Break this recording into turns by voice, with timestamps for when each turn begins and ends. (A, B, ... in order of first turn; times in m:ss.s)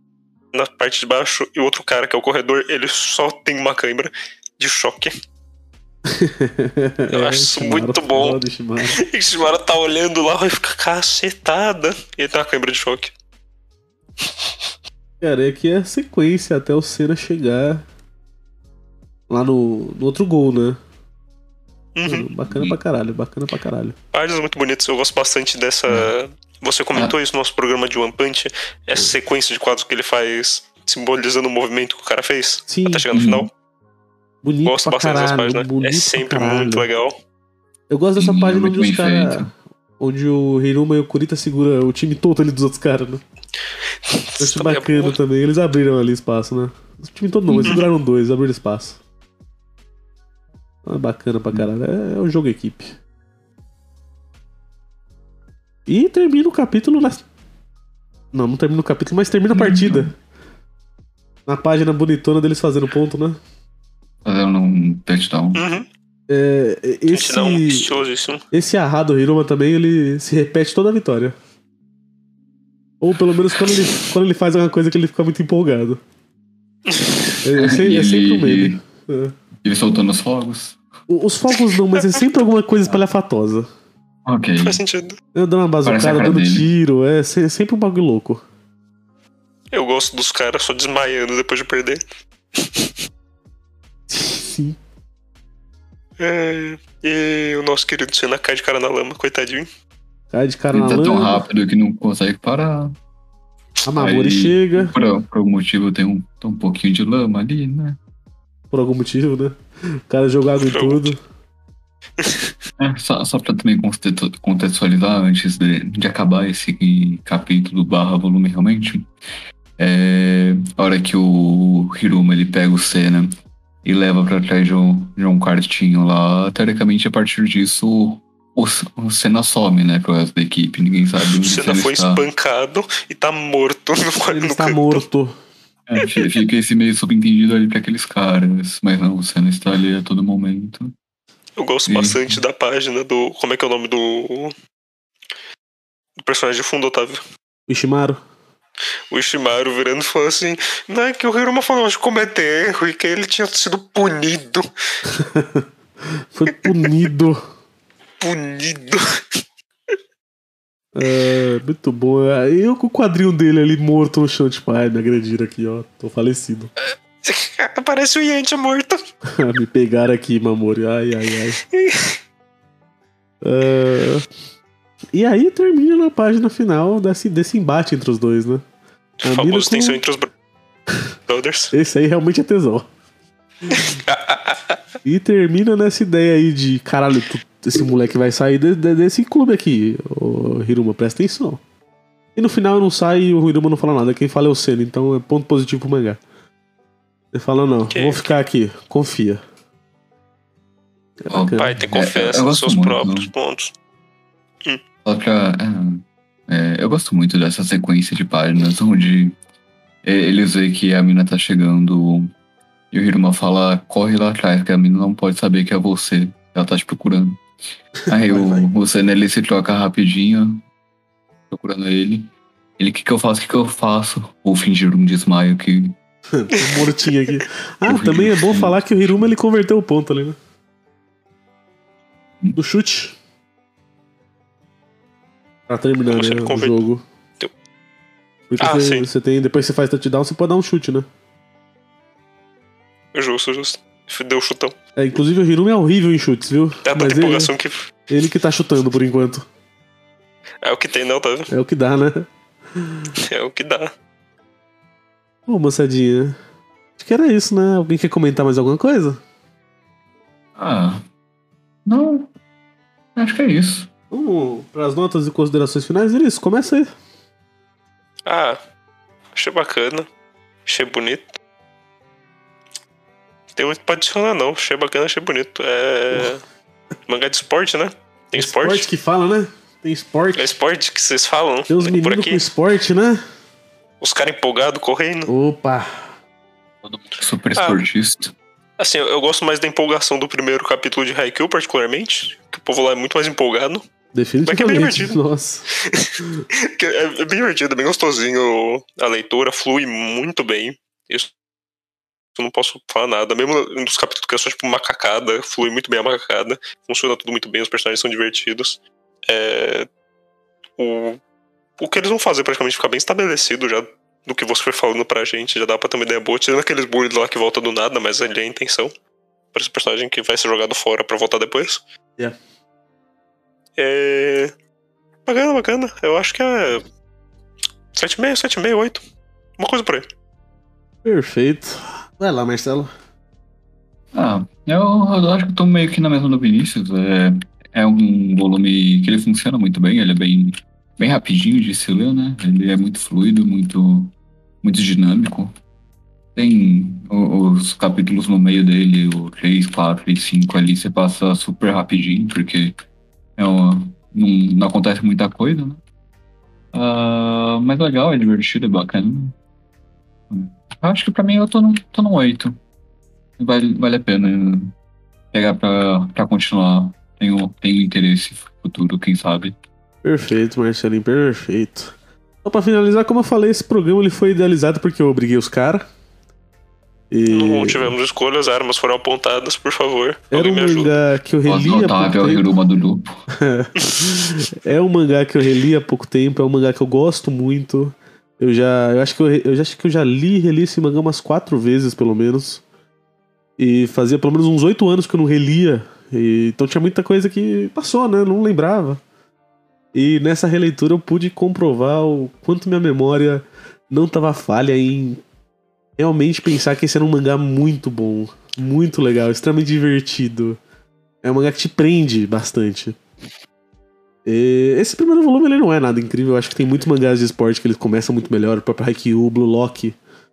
0:00.5-0:05.1 A
0:06.0-0:09.0 B
0:07.1-0:08.4 A
0:09.0-0:13.1 A
0:14.2-0:14.5 A
0:15.2-0:17.8 B
0:19.3-0:20.8 B
0:22.0-0:22.3 A
0:22.1-0:24.0 B
0:22.5-0:22.8 C
0:24.1-0:33.5 A
0:32.7-0:33.0 B
0:33.1-0:33.5 C
0:34.4-0:36.9 B
0:34.6-0:37.2 A
0:37.9-0:39.5 B
0:38.2-0:39.5 C
0:40.0-0:43.2 B
0:44.0-0:45.2 A
0:44.4-0:49.0 B
0:47.5-0:47.8 C
0:50.8-0:52.9 B
0:55.9-0:57.2 B
0:58.3-1:00.1 B
0:59.5-1:00.1 C
1:01.5-1:03.4 B
1:04.2-1:05.6 C
1:05.6-1:05.9 A
1:06.3-1:07.9 B
1:07.1-1:08.4 A
1:08.5-1:11.4 B
1:13.0-1:16.0 B
1:16.9-1:17.4 A
1:17.4-1:19.3 B
1:17.5-1:18.8 C
1:19.6-1:20.8 C
1:21.1-1:23.7 B
1:24.3-1:24.8 C
1:24.6-1:25.2 A
1:25.3-1:28.4 B
1:25.8-1:26.7 C
1:29.7-1:32.0 A
1:32.6-1:32.9 A
1:34.1-1:34.8 B
1:36.2-1:39.7 A
1:40.3-1:41.4 B
1:40.7-1:43.0 C
1:43.8-1:45.0 B
1:44.0-1:48.0 C
1:48.7-1:49.6 B
1:50.1-1:51.2 B
1:50.6-1:51.1 A
1:52.2-1:52.5 A
1:52.8-1:59.1 C
1:59.8-2:03.3 C
2:03.8-2:12.2 C
2:11.4-2:15.0 A
2:14.3-2:15.3 B
2:15.9-2:20.9 C
2:21.6-2:24.5 A
2:21.9-2:22.4 C
2:26.2-2:27.2 A
2:27.7-2:28.2 B
2:29.1-2:34.7 A
2:35.0-2:37.4 B
2:36.5-2:36.9 A
2:38.2-2:39.2 A
2:41.0-2:46.7 B
2:46.8-2:49.0 A
2:49.3-2:51.6 B
2:51.7-2:52.2 A
2:53.4-2:54.3 B
2:55.1-2:58.6 B
2:59.2-3:00.3 A
2:59.2-3:00.0 B
3:01.3-3:01.7 A
3:01.7-3:02.9 B
3:03.7-3:04.8 A
3:05.0-3:11.6 B
3:12.4-3:16.2 B
3:17.3-3:19.4 B
3:17.9-3:18.3 A
3:21.2-3:21.7 B
3:21.3-3:23.3 C
3:21.6-3:23.7 A
3:25.0-3:29.4 C
3:30.0-3:32.3 C
3:32.9-3:37.4 C
3:38.1-3:40.6 C
3:38.1-3:38.7 B
3:41.5-3:46.0 C
3:46.3-3:50.4 B
3:46.5-3:47.3 A
3:47.9-3:49.3 C
3:52.6-3:53.2 B
3:55.7-3:57.0 B
3:56.1-3:56.8 A
3:58.5-4:01.1 B
3:58.6-3:59.1 A
4:03.1-4:04.8 A
4:05.0-4:07.5 B
4:06.8-4:07.9 A
4:08.1-4:09.4 B
4:10.6-4:11.5 A
4:11.5-4:13.1 B
4:13.2-4:13.9 A
4:15.5-4:16.4 B
4:17.0-4:19.2 B
4:20.6-4:21.0 C
4:21.9-4:22.3 C
4:23.2-4:23.9 C
4:24.1-4:26.9 B
4:28.3-4:28.6 A
4:29.4-4:30.1 A
4:30.7-4:31.3 A
4:33.6-4:36.4 A
4:37.1-4:38.9 A
4:38.4-4:40.5 B
4:40.4-4:42.4 A
4:41.7-4:43.2 B
4:44.0-4:45.3 A
4:45.3-4:46.1 B
4:46.8-4:48.3 C
4:47.6-4:47.8 A
4:48.8-4:53.8 A
4:54.1-4:55.6 B
4:54.4-4:55.2 A
4:55.7-5:01.3 A
5:02.4-5:09.9 A
5:10.8-5:11.2 A
5:11.8-5:18.9 A
5:19.5-5:21.8 A
5:23.8-5:24.5 A
5:25.3-5:26.8 A
5:27.9-5:29.0 A
5:29.6-5:30.1 A
5:31.0-5:32.9 B
5:34.1-5:45.5 C
5:46.4-5:52.8 C
5:53.4-5:55.8 C
5:56.7-5:59.4 C
6:00.3-6:02.6 C
6:03.4-6:04.7 C
6:05.3-6:09.6 C
6:10.0-6:11.9 B
6:12.4-6:15.8 B
6:17.1-6:17.9 B
6:17.3-6:20.9 A
6:20.3-6:22.5 B
6:21.5-6:23.2 C
6:23.3-6:32.6 B
6:23.8-6:24.1 A
6:33.6-6:39.0 B
6:39.9-6:45.2 B
6:46.0-6:50.6 B
6:51.2-6:53.0 B
6:54.3-7:00.0 B